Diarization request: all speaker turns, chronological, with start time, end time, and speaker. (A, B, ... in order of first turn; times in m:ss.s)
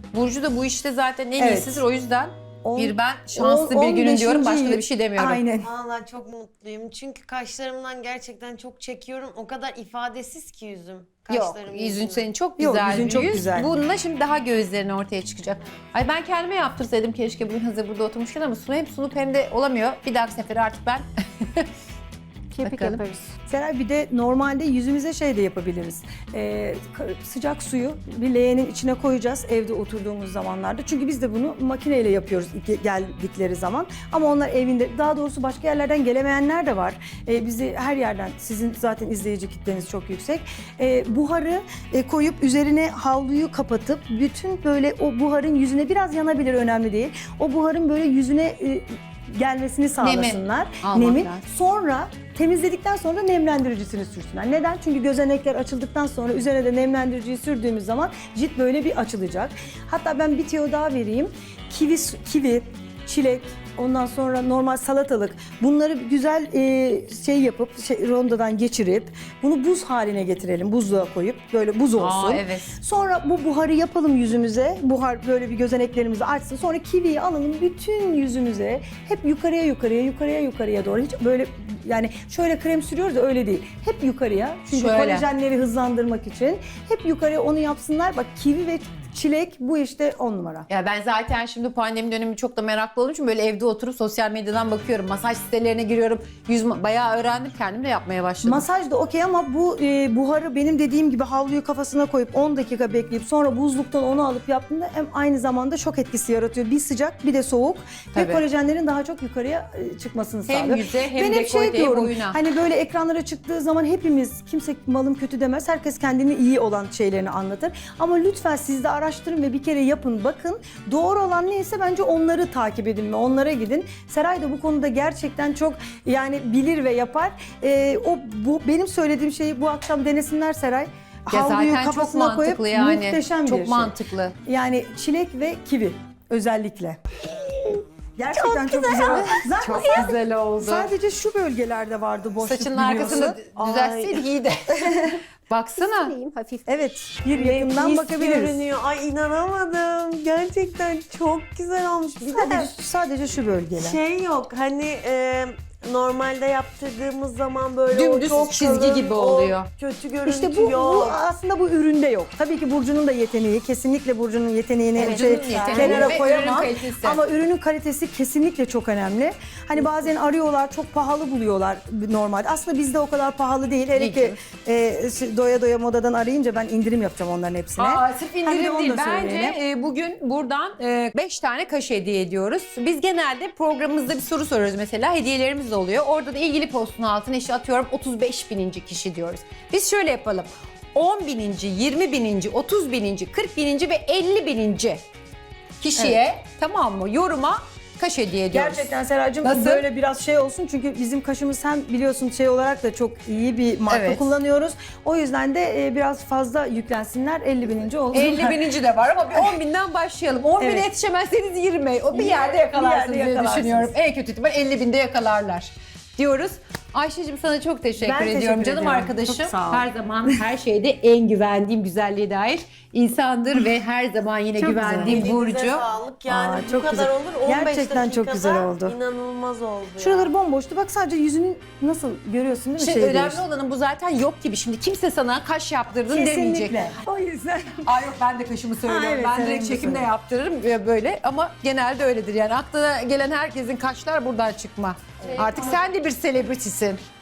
0:00.1-0:05.4 A
0:01.4-0:01.8 B
0:02.6-0:05.7 B
0:05.6-0:12.2 C
0:11.3-0:21.7 A
0:12.6-0:13.7 B
0:22.5-0:23.3 D
0:22.6-0:23.0 A
0:23.5-1:30.7 B
0:50.0-0:51.4 A
1:12.0-1:12.8 A
1:24.7-1:25.2 A
1:30.7-1:38.6 A
1:38.4-2:13.9 B
1:48.1-1:48.4 A
1:50.5-1:52.4 A
2:11.3-2:14.3 A
2:14.4-2:17.3 B
2:18.2-2:23.4 B
2:18.7-2:19.3 C
2:18.7-2:19.2 D
2:19.1-2:20.9 A
2:22.4-2:26.1 A
2:23.4-2:24.2 C
2:24.9-2:25.2 B
2:25.8-2:26.8 D
2:26.7-2:28.6 B
2:27.3-2:32.7 C
2:32.3-2:34.0 B
2:33.8-2:41.2 C
2:37.9-2:39.7 A
2:40.2-2:59.6 B
2:45.0-2:47.2 A
2:45.0-2:46.3 C
2:53.9-2:54.4 A
2:57.8-3:15.0 A
3:15.8-3:18.9 A
3:18.5-3:28.6 B
3:19.4-3:19.8 A
3:23.9-3:24.3 A
3:28.1-3:45.8 A
3:29.3-3:29.6 B
3:30.6-3:30.9 B
3:32.1-3:33.9 B
3:38.0-3:40.4 B
3:44.6-3:50.3 C
3:44.7-3:45.2 B
3:46.3-3:49.0 B
3:50.0-3:53.4 B
3:52.8-3:56.8 A
3:56.1-3:58.0 B
3:57.8-4:07.0 A
3:58.8-4:00.1 B
4:05.3-4:05.7 C